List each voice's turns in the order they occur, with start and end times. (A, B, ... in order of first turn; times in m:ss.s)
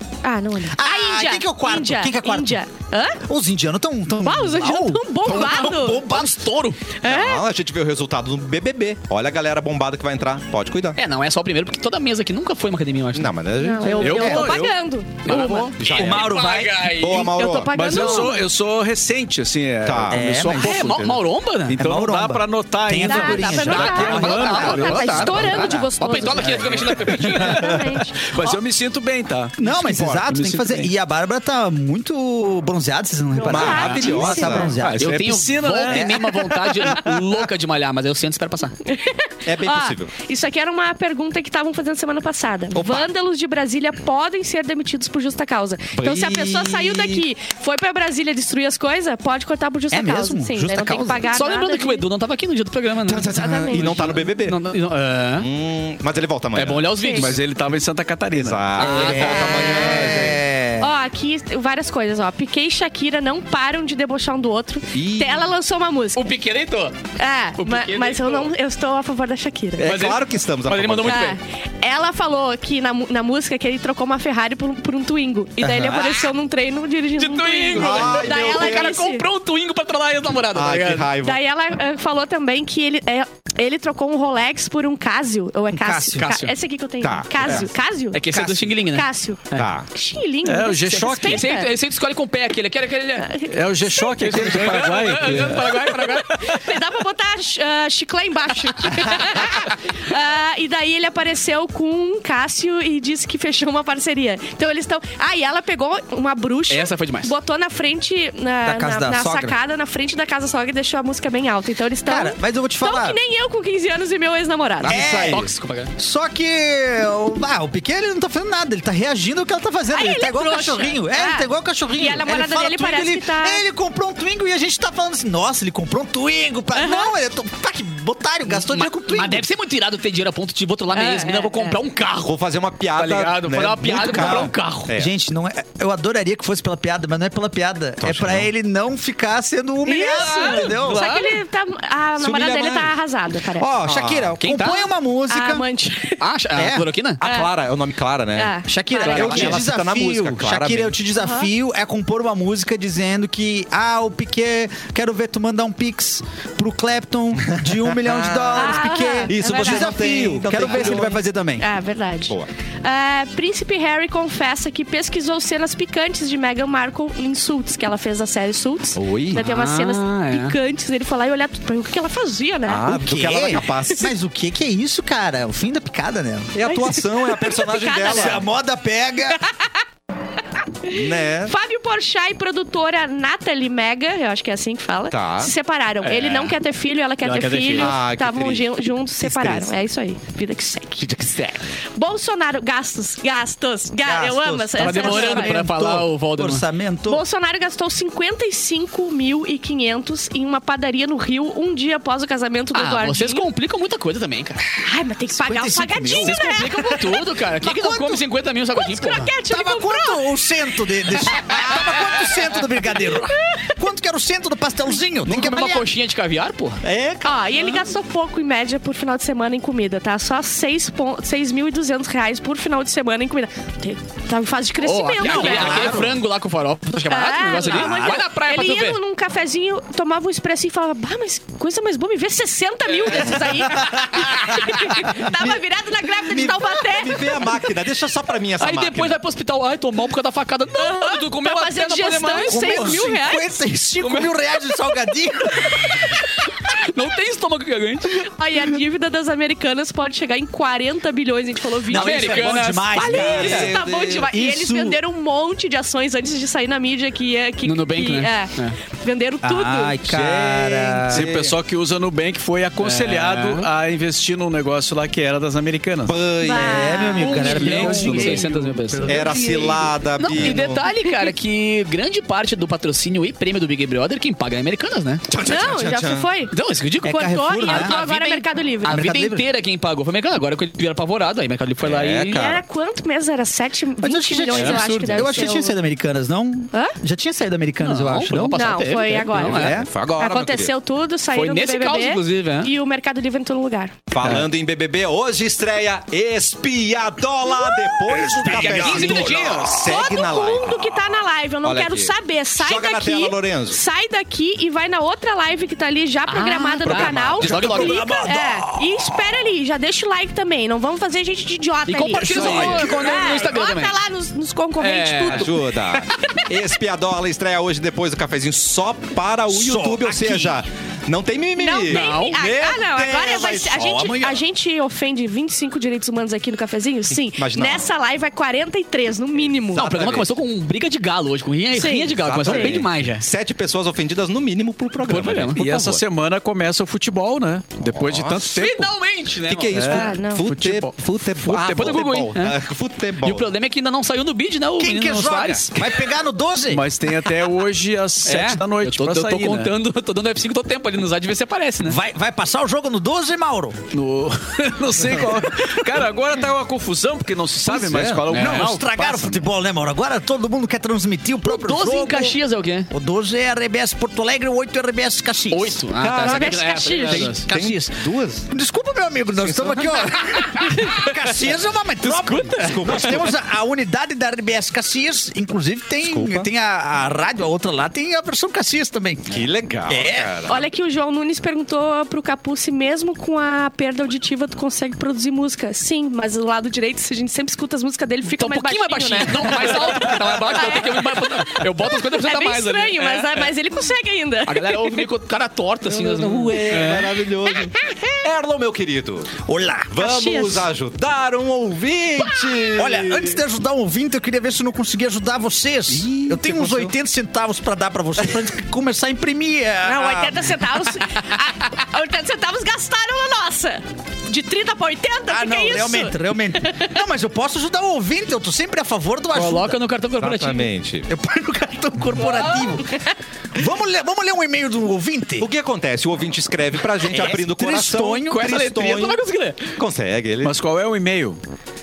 0:00.2-0:03.2 A
0:00.7-0:02.6 B
0:03.2-0:06.4 B
0:04.2-0:06.2 A
0:05.3-0:06.9 C
0:07.0-0:07.5 A
0:07.0-0:11.0 D
0:11.0-0:13.3 C
0:13.1-0:14.5 D
0:13.6-0:15.7 A
0:14.0-0:14.7 E
0:14.1-0:14.6 B
0:15.2-0:17.3 C
0:15.3-0:17.1 B
0:15.8-0:16.4 D
0:16.9-0:17.7 D
0:17.1-0:18.5 A
0:17.7-0:21.0 E
0:19.8-0:21.2 D
0:20.1-0:20.8 B
0:20.5-0:21.8 C
0:21.7-0:25.5 E
0:21.8-0:26.6 B
0:23.0-0:28.6 A
0:23.9-0:27.8 C
0:27.1-0:27.8 B
0:28.3-0:30.9 E
0:29.6-0:35.2 B
0:29.6-0:30.1 D
0:33.4-0:34.7 A
0:33.4-0:34.8 D
0:34.7-0:36.1 E
0:34.8-0:38.8 C
0:35.8-0:36.9 B
0:38.8-0:52.1 A
0:39.5-0:40.1 D
0:42.8-0:43.1 B
0:45.9-0:47.2 D
0:49.9-0:51.3 B
0:51.3-0:55.5 C
0:53.1-0:54.6 D
0:53.2-0:54.1 A
0:55.4-0:57.0 D
0:56.5-0:57.4 C
0:57.0-0:57.3 A
0:57.1-0:58.7 E
0:58.3-1:00.4 D
0:58.8-0:59.7 C
0:58.8-1:00.9 B
0:59.1-1:00.3 A
1:00.8-1:06.3 A
1:04.9-1:05.5 D
1:06.2-1:07.0 C
1:07.2-1:09.9 A
1:07.6-1:08.5 C
1:09.8-1:11.3 D
1:09.8-1:11.4 C
1:11.0-1:19.2 A
1:15.6-1:16.1 B
1:17.2-1:21.1 C
1:17.8-1:18.9 D
1:20.6-1:21.4 D
1:21.2-1:31.7 A
1:25.7-1:26.5 B
1:26.2-1:26.5 C
1:27.0-1:27.7 D
1:27.4-1:29.7 C
1:29.6-1:29.9 D
1:30.4-1:31.5 E
1:31.1-1:33.3 C
1:33.2-1:34.6 A
1:33.5-1:35.8 E
1:34.2-1:36.6 C
1:35.7-1:55.0 A
1:46.7-1:47.3 C
1:48.6-1:49.6 B
1:52.1-1:53.2 B
1:54.8-1:55.5 D
1:54.8-2:09.5 B
1:55.2-1:55.9 C
1:59.9-2:03.6 A
2:06.8-2:07.2 A
2:08.5-2:12.3 C
2:10.9-2:11.8 A
2:12.2-2:15.1 D
2:13.0-2:14.9 C
2:13.9-2:21.1 B
2:18.0-2:18.5 D
2:19.9-2:23.7 A
2:20.2-2:21.4 C
2:22.2-2:22.9 D
2:23.6-2:25.7 B
2:23.8-2:24.4 D
2:24.4-2:24.9 C
2:25.3-2:26.2 A
2:26.2-2:27.2 C
2:26.6-2:26.9 B
2:27.2-2:31.0 D
2:27.2-2:27.5 A
2:28.4-2:29.5 A
2:28.6-2:41.7 B
2:29.0-2:29.6 C
2:31.2-2:31.5 A
2:37.4-2:41.2 D
2:38.6-2:52.9 A
2:49.0-2:49.4 D
2:49.3-2:50.6 C
2:52.7-2:54.1 D
2:52.8-2:56.6 B
2:56.6-2:58.4 D
2:56.6-2:58.4 A
2:58.0-2:59.4 B
2:59.3-2:59.8 A
3:00.8-3:11.1 A
3:00.9-3:01.5 D
3:05.1-3:05.5 D
3:06.0-3:06.5 C
3:07.2-3:07.9 C
3:07.8-3:08.7 D
3:09.2-3:09.6 D
3:11.0-3:11.6 C
3:12.0-3:15.6 A
3:14.0-3:17.2 B
3:14.8-3:16.6 C
3:17.1-3:23.5 A
3:22.7-3:24.6 C
3:24.8-3:28.2 A
3:25.3-3:26.4 B
3:26.1-3:29.3 C
3:28.7-3:30.3 A
3:29.5-3:35.9 B
3:33.4-3:33.7 A
3:35.3-3:36.8 C
3:36.8-3:37.3 D
3:37.2-3:46.0 A
3:44.8-3:49.0 C
3:45.2-3:46.2 B
3:47.1-3:57.5 A
3:53.4-3:55.6 B
3:56.3-3:56.9 B
3:56.9-3:59.2 D
3:58.6-4:02.9 C
4:00.8-4:03.5 A
4:02.4-4:06.1 B
4:04.0-4:04.3 C
4:06.6-4:08.2 C
4:08.2-4:20.0 A
4:11.9-4:15.0 B
4:11.9-4:13.7 C
4:13.2-4:14.3 D
4:17.6-4:18.8 C
4:19.4-4:21.3 B
4:20.1-4:26.2 E
4:21.1-4:21.6 D
4:22.8-4:23.7 C
4:26.0-4:27.1 D
4:26.4-4:28.3 A
4:26.5-4:29.8 B
4:27.2-4:29.2 C
4:27.5-4:29.3 E
4:29.1-4:30.8 D
4:29.3-4:29.7 A
4:30.2-4:35.2 C
4:35.3-4:36.3 D
4:35.4-4:36.5 A
4:36.5-4:42.4 C
4:37.0-4:38.0 B
4:37.0-4:39.0 A
4:38.8-4:39.4 B
4:41.8-4:42.6 D
4:42.3-4:45.8 A
4:44.0-4:48.7 B
4:44.5-4:45.5 C
4:47.8-4:49.8 C
4:48.5-4:54.0 A
4:49.4-4:49.9 B
4:49.6-4:50.7 D
4:51.3-4:52.7 C
4:54.1-5:01.1 D
4:57.7-4:57.9 A
4:58.1-4:59.8 B
4:58.4-4:59.9 C
4:59.8-5:15.7 A
5:01.6-5:03.8 D
5:06.3-5:08.1 C
5:06.8-5:07.8 D
5:07.4-5:09.0 B
5:11.9-5:14.0 C
5:12.1-5:13.2 B
5:12.4-5:12.6 D
5:14.8-5:15.5 C
5:15.3-5:24.0 D
5:19.5-5:20.6 B
5:21.6-5:30.0 A
5:21.9-5:22.4 C
5:23.0-5:24.4 B
5:27.1-5:27.9 D
5:29.4-5:30.3 D
5:29.7-5:33.2 C
5:31.7-5:32.7 A
5:32.2-5:36.0 D
5:35.0-5:35.7 C
5:35.6-5:38.9 E
5:37.8-5:38.7 D
5:38.5-5:40.0 C
5:39.4-5:43.5 D
5:39.7-5:42.0 E
5:39.9-5:40.5 A
5:41.5-5:42.6 C
5:43.2-5:45.9 C
5:44.8-5:46.8 B
5:46.7-5:49.7 E
5:48.2-5:52.0 C
5:51.8-5:53.8 B
5:53.9-5:59.4 E
5:57.6-5:58.3 D
5:58.3-5:58.7 C
5:58.3-6:05.8 B
6:01.4-6:02.9 C
6:05.5-6:07.5 C
6:06.0-6:08.5 D
6:06.2-6:07.3 A
6:07.3-6:20.3 B
6:09.4-6:10.4 D
6:10.6-6:10.9 C
6:12.0-6:13.1 C
6:12.6-6:13.4 D
6:16.0-6:16.5 D
6:19.3-6:20.6 D
6:20.5-6:35.1 A
6:28.3-6:33.5 C
6:34.5-6:37.2 C
6:35.9-6:39.4 D
6:37.5-6:38.2 A
6:39.4-6:40.0 B
6:39.9-6:43.4 D
6:40.0-6:40.7 A
6:42.2-6:42.5 A
6:42.7-6:50.5 B
6:45.9-6:46.9 D
6:49.8-6:57.0 A
6:55.3-6:59.8 B
6:59.3-7:00.7 C
7:00.2-7:01.1 D
7:01.1-7:02.9 B
7:03.6-7:05.5 B
7:05.4-7:09.2 D
7:07.0-7:08.7 B
7:08.3-7:09.8 C
7:09.8-7:10.6 D
7:10.4-7:11.4 E